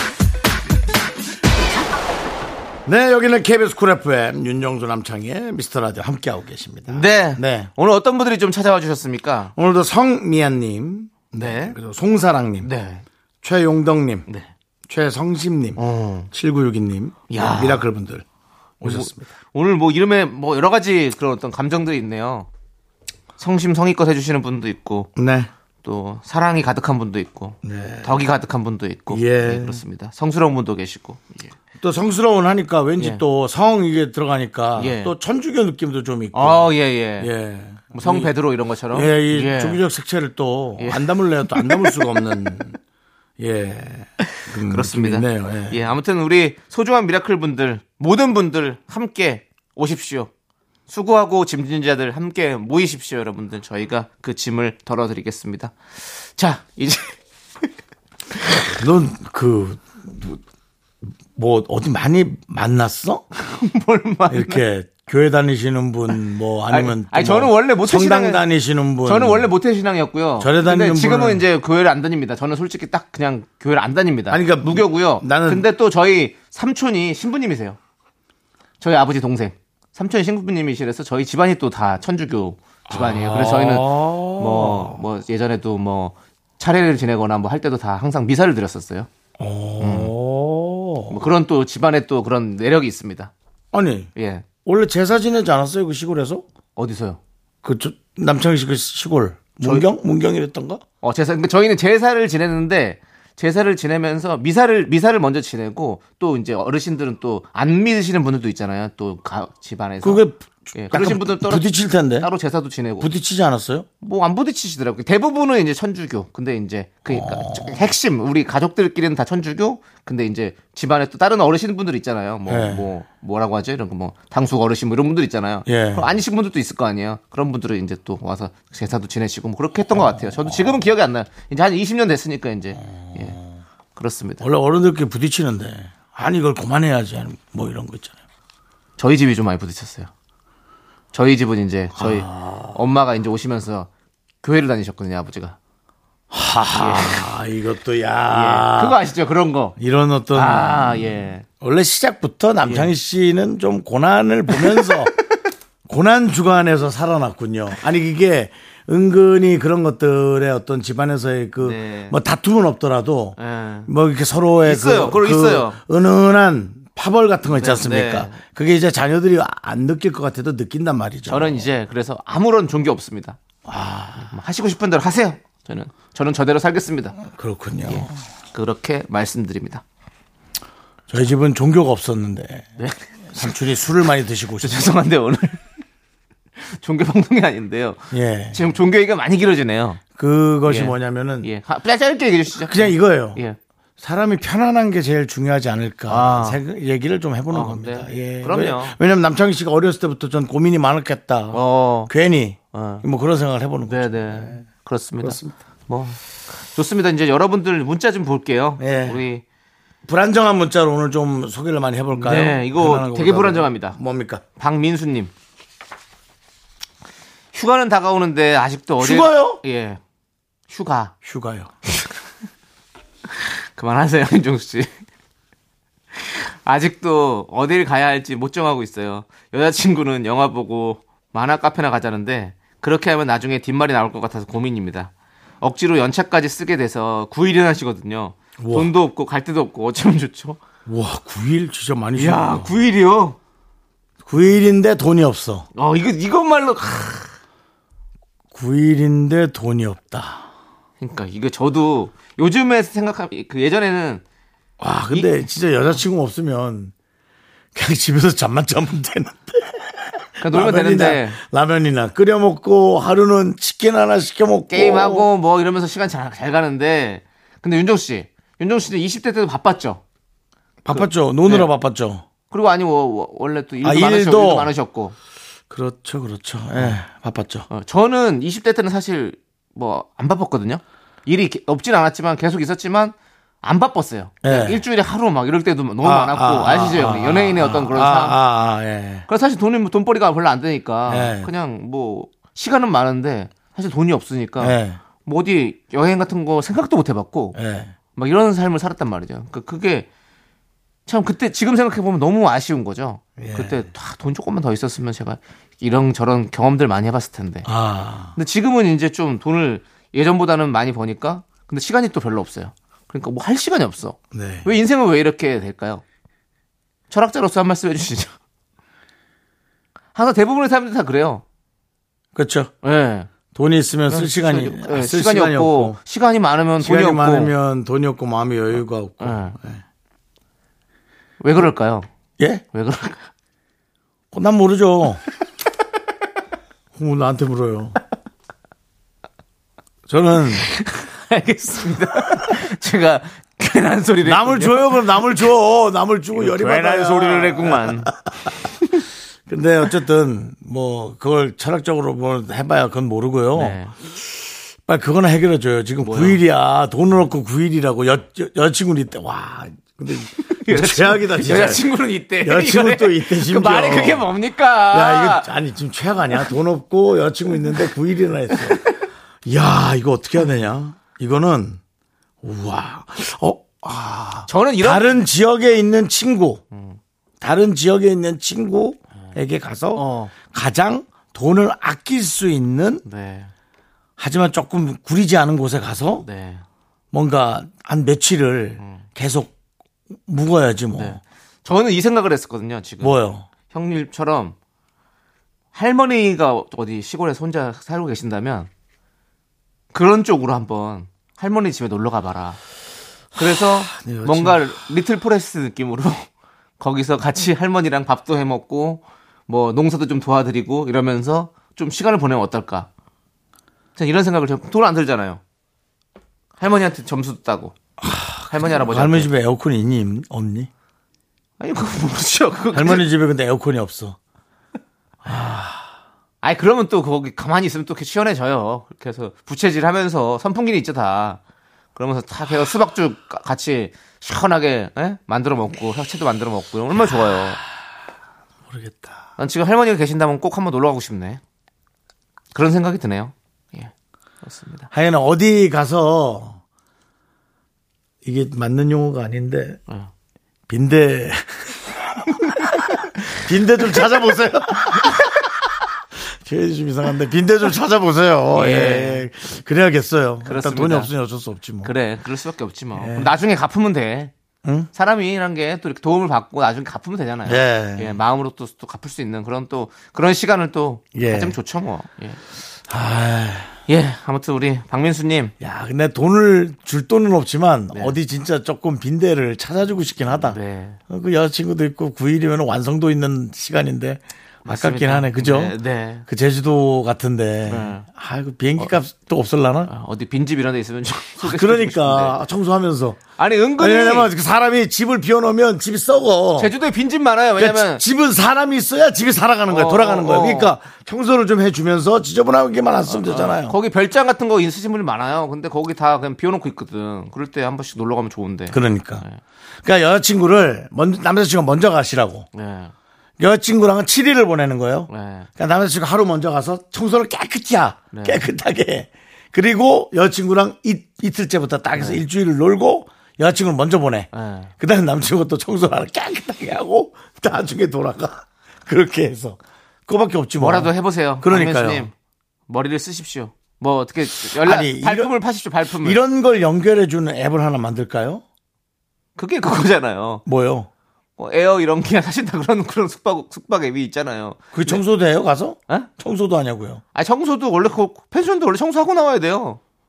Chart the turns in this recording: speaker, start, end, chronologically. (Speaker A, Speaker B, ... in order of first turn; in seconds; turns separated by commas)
Speaker A: 2.9-7.7, Speaker B: 6.9-9.5, Speaker A: 9.6-12.7, Speaker B: 11.3-11.8, Speaker B: 12.6-13.0, Speaker A: 13.4-14.3, Speaker A: 14.9-18.2, Speaker B: 15.8-16.3, Speaker B: 17.3-17.9, Speaker A: 18.8-19.3, Speaker B: 18.8-22.5, Speaker B: 23.4-25.1, Speaker A: 25.2-25.5, Speaker B: 25.8-31.5, Speaker A: 27.6-28.2, Speaker A: 29.1-29.8, Speaker A: 31.8-38.4, Speaker B: 34.8-35.1, Speaker B: 36.3-37.3, Speaker B: 37.9-39.8, Speaker A: 38.9-42.8, Speaker B: 40.8-42.1, Speaker A: 43.4-45.8, Speaker B: 44.7-50.3, Speaker B: 50.9-57.2, Speaker A: 58.8-60.4, Speaker A: 61.4-63.3, Speaker B: 63.4-64.6, Speaker A: 64.3-69.5, Speaker B: 66.7-68.5, Speaker B: 69.0-77.8, Speaker A: 70.4-71.5, Speaker A: 74.3-75.7, Speaker B: 78.8-89.1, Speaker A: 82.9-85.0, Speaker A: 89.4-91.2, Speaker B: 89.8-90.1, Speaker B: 91.1-93.3, Speaker A: 93.7-94.1, Speaker B: 94.2-94.5, Speaker A: 94.6-96.5, Speaker B: 96.8-97.2, Speaker A: 97.6-100.8, Speaker B: 99.6-99.9, Speaker B: 101.0-113.1, Speaker A: 110.0-112.3, Speaker A: 113.0-113.9, Speaker B: 114.0-133.4, Speaker A: 117.1-117.8, Speaker A: 122.5-122.9, Speaker A: 125.7-126.1, Speaker A: 129.9-130.8, Speaker A: 132.8-133.6, Speaker B: 134.0-134.4, Speaker A: 134.4-138.2, Speaker B: 139.0-140.1, Speaker B: 141.1-143.9, Speaker A: 142.0-142.8, Speaker B: 144.4-145.6, Speaker A: 146.3-149.0, Speaker B: 146.7-147.3, Speaker B: 148.3-149.8, Speaker A: 149.8-155.1, Speaker B: 150.3-151.4, Speaker B: 152.7-152.9, Speaker B: 154.6-155.0, Speaker A: 155.9-171.7, Speaker B: 161.6-162.2, Speaker B: 163.4-163.9, Speaker B: 164.7-165.8, Speaker B: 167.5-168.4, Speaker B: 171.3-173.4, Speaker A: 173.7-174.3, Speaker B: 174.2-177.2, Speaker A: 177.2-178.2, Speaker B: 177.9-179.8, Speaker A: 181.1-182.8, Speaker B: 182.8-183.5, Speaker A: 183.3-184.9, Speaker B: 184.6-185.7, Speaker B: 186.6-190.0, Speaker A: 188.1-188.6, Speaker A: 190.2-191.5, Speaker B: 190.7-193.6, Speaker A: 192.6-193.4, Speaker A: 194.0-204.6, Speaker B: 196.1-196.6, Speaker B: 197.5-199.0, Speaker B: 201.5-202.1, Speaker B: 202.7-203.1, Speaker B: 203.9-209.4, Speaker A: 205.2-205.6, Speaker A: 208.8-209.2, Speaker A: 210.0-214.4, Speaker B: 212.2-214.0, Speaker B: 214.6-215.3, Speaker B: 217.5-220.0, Speaker A: 219.0-219.6, Speaker B: 220.7-221.1, Speaker A: 221.2-221.7, Speaker B: 223.3-224.9, Speaker B: 226.1-240.6, Speaker A: 238.6-238.9, Speaker A: 240.9-242.8, Speaker B: 242.2-243.4, Speaker A: 244.2-245.7, Speaker B: 245.8-247.3, Speaker A: 248.5-250.5, Speaker B: 251.0-254.2, Speaker A: 254.8-256.9, Speaker A: 257.8-265.3, Speaker B: 260.4-261.4, Speaker B: 264.7-270.0, Speaker A: 270.9-272.2, Speaker B: 270.9-271.7, Speaker B: 272.5-275.1, Speaker A: 273.8-274.7, Speaker A: 275.7-277.7, Speaker B: 276.7-277.0, Speaker B: 277.7-288.4, Speaker A: 284.4-284.8, Speaker A: 286.0-289.3, Speaker B: 289.3-297.6, Speaker A: 291.1-291.5, Speaker A: 294.6-295.0, Speaker A: 297.6-297.9, Speaker B: 298.1-300.1, Speaker B: 301.1-307.7, Speaker A: 303.4-303.9, Speaker A: 307.6-308.4, Speaker B: 308.4-316.0, Speaker A: 314.3-314.7, Speaker B: 317.1-318.3, Speaker B: 320.1-321.4, Speaker A: 322.3-322.7, Speaker B: 322.8-323.3, Speaker A: 323.5-326.0, Speaker B: 324.1-327.5, Speaker A: 326.8-329.8, Speaker B: 329.2-329.6, Speaker B: 331.4-332.1, Speaker A: 332.4-332.6, Speaker B: 332.7-333.3, Speaker A: 334.3-335.2, Speaker A: 336.9-338.0, Speaker A: 340.1-340.6, Speaker B: 340.6-345.1, Speaker A: 344.2-348.6, Speaker B: 346.3-348.1, Speaker A: 349.5-361.9, Speaker B: 353.6-353.9, Speaker B: 356.0-356.4, Speaker B: 360.5-365.5, Speaker A: 362.4-364.3, Speaker A: 364.9-368.8, Speaker A: 369.4-371.8, Speaker A: 372.4-376.6, Speaker B: 374.5-375.2, Speaker B: 376.7-377.0, Speaker A: 377.4-383.1, Speaker B: 379.9-380.3, Speaker B: 383.1-383.5, Speaker A: 384.2-386.3, Speaker B: 386.2-386.6, Speaker A: 387.1-389.5, Speaker B: 388.8-389.1, Speaker A: 390.3-391.2, Speaker B: 391.0-394.6, Speaker A: 393.0-393.5, Speaker B: 395.7-398.7, Speaker B: 399.9-402.6, Speaker B: 403.4-406.3, Speaker A: 403.4-404.7, Speaker B: 406.8-412.9, Speaker B: 414.0-415.4, Speaker B: 416.6-417.8, Speaker A: 418.0-420.7, Speaker B: 418.5-419.3, Speaker B: 421.6-423.1, Speaker A: 422.7-424.2, Speaker A: 425.2-425.9, Speaker B: 426.4-431.4, Speaker B: 431.9-437.6, Speaker A: 438.7-439.2, Speaker B: 439.4-441.4, Speaker B: 442.5-443.9, Speaker B: 444.4-444.9, Speaker A: 444.9-446.6, Speaker A: 448.2-449.8, Speaker A: 450.7-455.7, Speaker A: 456.3-461.9, Speaker B: 458.5-459.3, Speaker B: 460.4-461.1, Speaker B: 461.8-464.3, Speaker A: 462.9-463.3, Speaker A: 464.6-464.9, Speaker B: 464.9-472.4, Speaker A: 467.4-468.2, Speaker A: 471.1-471.6, Speaker A: 472.9-473.8, Speaker B: 473.9-475.5, Speaker A: 475.6-489.9, Speaker B: 477.9-478.2, Speaker B: 480.3-481.0, Speaker B: 484.6-486.2, Speaker B: 487.7-488.1, Speaker B: 489.9-492.4, Speaker A: 491.4-493.2, Speaker B: 493.4-494.3, Speaker A: 493.8-496.7, Speaker B: 496.6-498.0, Speaker A: 497.6-503.8, Speaker B: 499.7-500.7, Speaker B: 503.1-509.4, Speaker A: 508.7-509.2, Speaker A: 509.8-512.5, Speaker B: 512.5-512.9, Speaker A: 513.4-532.1, Speaker B: 515.1-515.5, Speaker B: 518.1-518.4, Speaker B: 522.0-522.2, Speaker B: 524.3-524.7, Speaker B: 530.6-532.1, Speaker B: 532.7-536.2, Speaker A: 534.5-535.4, Speaker A: 535.9-538.4, Speaker B: 539.4-540.4, Speaker A: 540.5-540.9, Speaker B: 541.4-545.0, Speaker A: 544.7-547.0, Speaker B: 547.1-549.8